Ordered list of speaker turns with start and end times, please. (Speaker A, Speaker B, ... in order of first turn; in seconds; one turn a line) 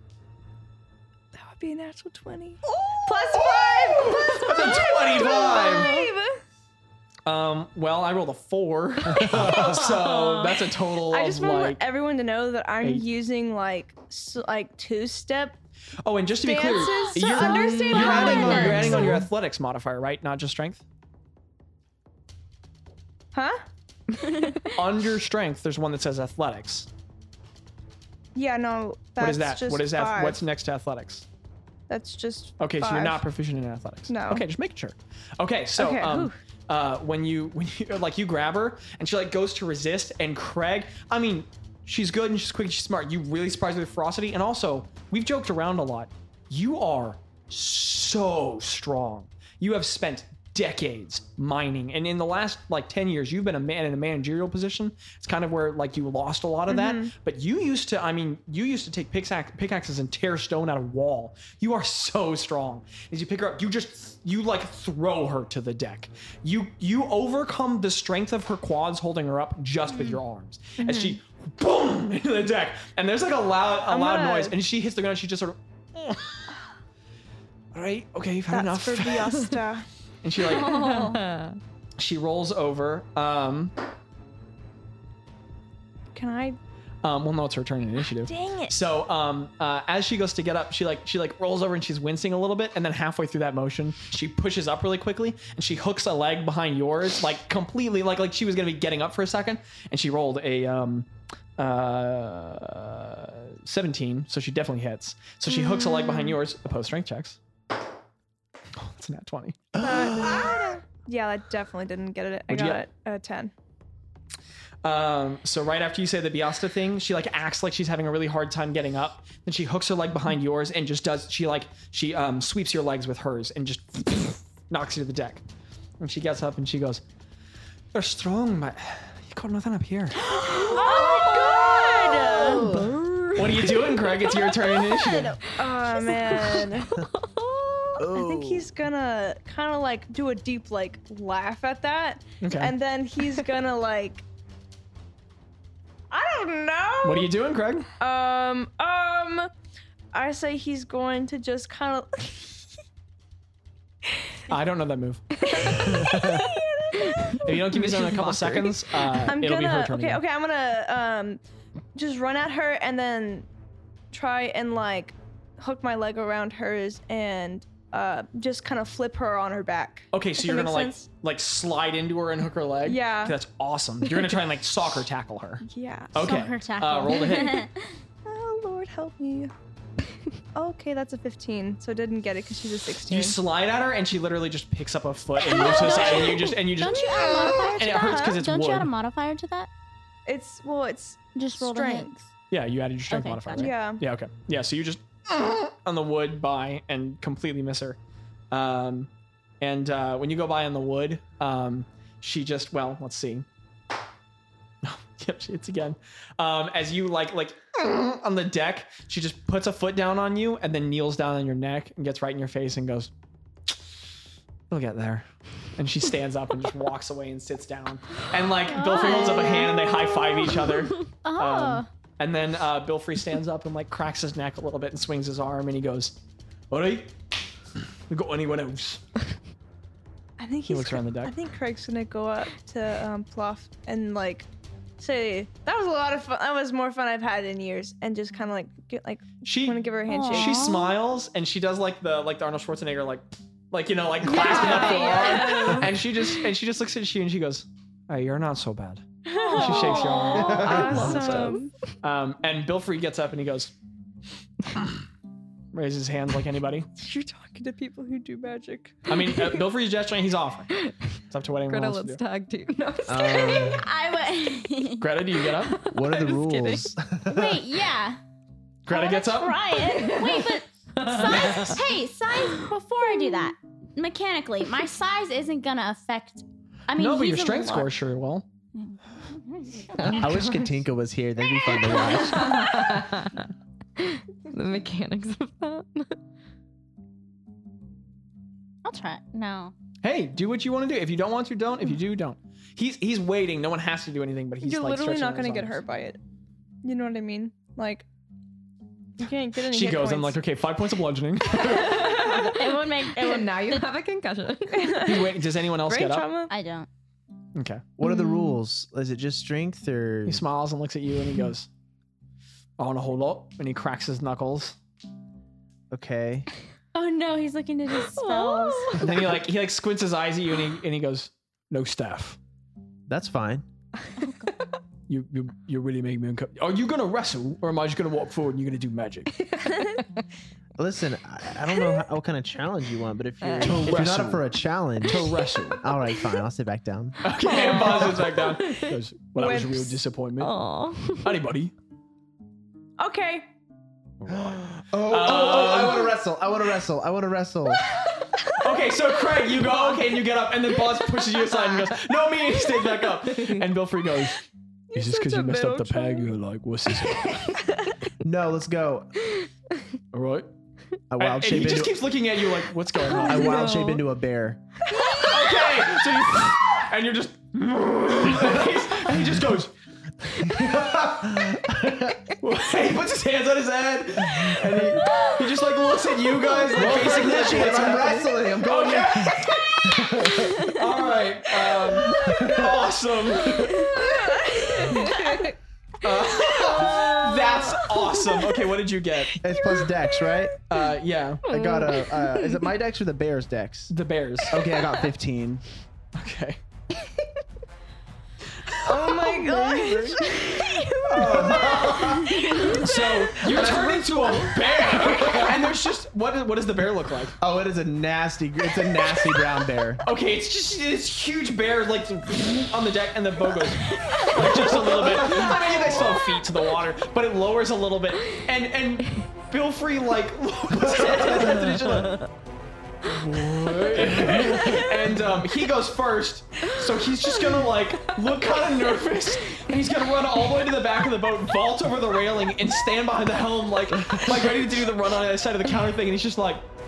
Speaker A: 1.3-6.4
Speaker B: 3.3-6.0
Speaker B: 7.2-11.8
Speaker C: 9.2-9.8
Speaker A: 9.8-10.0
Speaker A: 11.1-15.6
Speaker B: 12.8-13.1
Speaker B: 16.0-20.8
Speaker A: 16.4-19.2
Speaker D: 17.9-19.1
Speaker A: 23.3-23.6
Speaker D: 24.2-24.7
Speaker B: 24.7-26.9
Speaker A: 28.3-30.4
Speaker B: 29.2-31.2
Speaker A: 31.9-33.3
Speaker B: 32.6-76.5
Speaker A: 34.1-34.5
Speaker A: 35.8-36.3
Speaker A: 56.7-57.1
Speaker A: 70.8-71.2
Speaker A: 73.8-74.5
Speaker B: 77.7-79.5
Speaker A: 78.5-79.8
Speaker B: 80.2-81.2
Speaker E: 80.5-81.6
Speaker B: 82.0-83.7
Speaker A: 86.1-86.6
Speaker B: 87.0-107.4
Speaker A: 88.2-88.8
Speaker A: 105.6-106.3
Speaker B: 108.7-110.3
Speaker C: 109.8-110.5
Speaker A: 109.8-113.5
Speaker B: 112.5-112.8
Speaker B: 114.8-125.4
Speaker B: 126.0-127.0
Speaker B: 127.9-130.4
Speaker D: 130.2-132.6
Speaker A: 130.5-132.7
Speaker C: 132.2-133.7
Speaker B: 133.3-135.4
Speaker D: 134.8-135.4
Speaker A: 135.5-136.9
Speaker E: 136.9-137.9
Speaker C: 138.0-138.7
Speaker A: 138.1-144.2
Speaker B: 142.4-142.7
Speaker A: 146.1-147.3
Speaker B: 147.0-147.9
Speaker A: 148.0-149.5
Speaker A: 150.1-152.8
Speaker A: 154.1-154.4
Speaker B: 154.5-156.2
Speaker A: 155.5-161.4
Speaker C: 155.9-156.4
Speaker B: 157.3-160.2
Speaker E: 157.9-158.1
Speaker A: 161.9-163.5
Speaker A: 164.1-171.1
Speaker B: 170.1-177.7
Speaker A: 172.8-173.4
Speaker A: 175.6-176.2
Speaker D: 176.2-177.9
Speaker A: 178.2-179.5
Speaker A: 180.5-183.4
Speaker B: 183.1-188.9
Speaker D: 185.4-189.7
Speaker A: 185.6-186.4
Speaker A: 187.1-188.4
Speaker A: 190.3-192.2
Speaker D: 191.3-192.2
Speaker B: 192.5-198.0
Speaker D: 193.1-193.7
Speaker A: 193.5-194.0
Speaker B: 198.5-199.1
Speaker B: 199.6-203.4
Speaker B: 204.8-213.1
Speaker B: 214.7-215.2
Speaker B: 215.8-226.2
Speaker D: 218.7-221.9
Speaker B: 226.7-227.2
Speaker B: 228.1-229.0
Speaker A: 230.4-234.5
Speaker B: 230.7-231.4
Speaker A: 235.0-240.8
Speaker B: 239.4-253.7
Speaker D: 240.3-240.7
Speaker A: 244.2-245.9
Speaker E: 244.2-245.9
Speaker A: 249.2-251.7
Speaker E: 249.4-251.7
Speaker C: 250.3-251.1
Speaker B: 255.7-256.9
Speaker A: 256.9-259.3
Speaker B: 259.1-262.2
Speaker E: 261.7-263.8
Speaker C: 263.1-263.9
Speaker D: 263.3-265.1
Speaker B: 264.9-265.9
Speaker E: 265.6-266.9
Speaker C: 265.9-267.6
Speaker D: 267.2-268.2
Speaker B: 268.9-269.7
Speaker D: 268.9-277.9
Speaker E: 269.7-271.8
Speaker B: 276.9-278.4
Speaker D: 278.7-280.4
Speaker E: 280.0-280.6
Speaker C: 280.0-282.6
Speaker D: 281.6-282.6
Speaker E: 282.2-283.4
Speaker E: 284.1-286.1
Speaker D: 288.8-289.7
Speaker B: 290.0-295.8
Speaker A: 294.6-296.2
Speaker A: 296.8-298.1
Speaker A: 299.2-300.4
Speaker B: 299.7-302.5
Speaker E: 301.6-305.1
Speaker D: 302.3-303.9
Speaker A: 304.7-306.5
Speaker B: 305.0-306.4
Speaker D: 306.5-306.9
Speaker B: 307.5-307.9
Speaker C: 308.0-310.4
Speaker E: 308.0-308.5
Speaker B: 310.2-311.7
Speaker B: 312.8-314.8
Speaker C: 315.9-316.5
Speaker D: 316.9-319.1
Speaker E: 318.1-319.1
Speaker B: 318.9-322.4
Speaker C: 323.1-323.6
Speaker B: 325.1-329.5
Speaker C: 330.8-337.9
Speaker E: 333.4-334.0
Speaker B: 333.6-335.9
Speaker B: 337.2-340.6
Speaker E: 337.4-338.9
Speaker A: 337.6-338.2
Speaker A: 339.3-340.0
Speaker E: 340.4-341.4
Speaker B: 341.2-341.7
Speaker A: 343.0-343.5
Speaker B: 344.2-346.2
Speaker C: 344.3-347.9
Speaker B: 348.6-354.4
Speaker A: 354.9-356.3
Speaker B: 354.9-357.7
Speaker C: 358.2-359.1
Speaker B: 360.1-360.5
Speaker C: 361.1-362.1
Speaker B: 361.2-363.8
Speaker E: 363.1-364.0
Speaker C: 363.1-364.6
Speaker E: 365.0-365.3
Speaker B: 365.1-369.7
Speaker C: 368.3-368.6
Speaker C: 370.3-372.3
Speaker B: 372.4-384.1
Speaker C: 374.2-375.0
Speaker C: 376.6-380.8
Speaker C: 382.1-383.9
Speaker A: 384.0-385.5
Speaker E: 384.7-385.5
Speaker B: 386.0-389.4
Speaker C: 386.2-387.1
Speaker C: 389.4-390.6
Speaker B: 390.7-391.4
Speaker E: 391.4-392.6
Speaker C: 391.4-393.9
Speaker B: 393.9-394.6
Speaker C: 394.5-395.6
Speaker E: 394.7-395.0
Speaker B: 396.1-396.6
Speaker B: 398.6-400.4
Speaker A: 398.8-401.8
Speaker E: 400.3-400.6
Speaker B: 401.1-407.4
Speaker C: 401.1-402.4
Speaker A: 402.4-404.9
Speaker C: 403.4-404.1
Speaker C: 405.0-405.6
Speaker C: 407.4-410.0
Speaker B: 410.0-422.2
Speaker C: 420.9-421.7
Speaker B: 423.0-436.6
Speaker C: 424.0-424.9
Speaker E: 424.6-424.9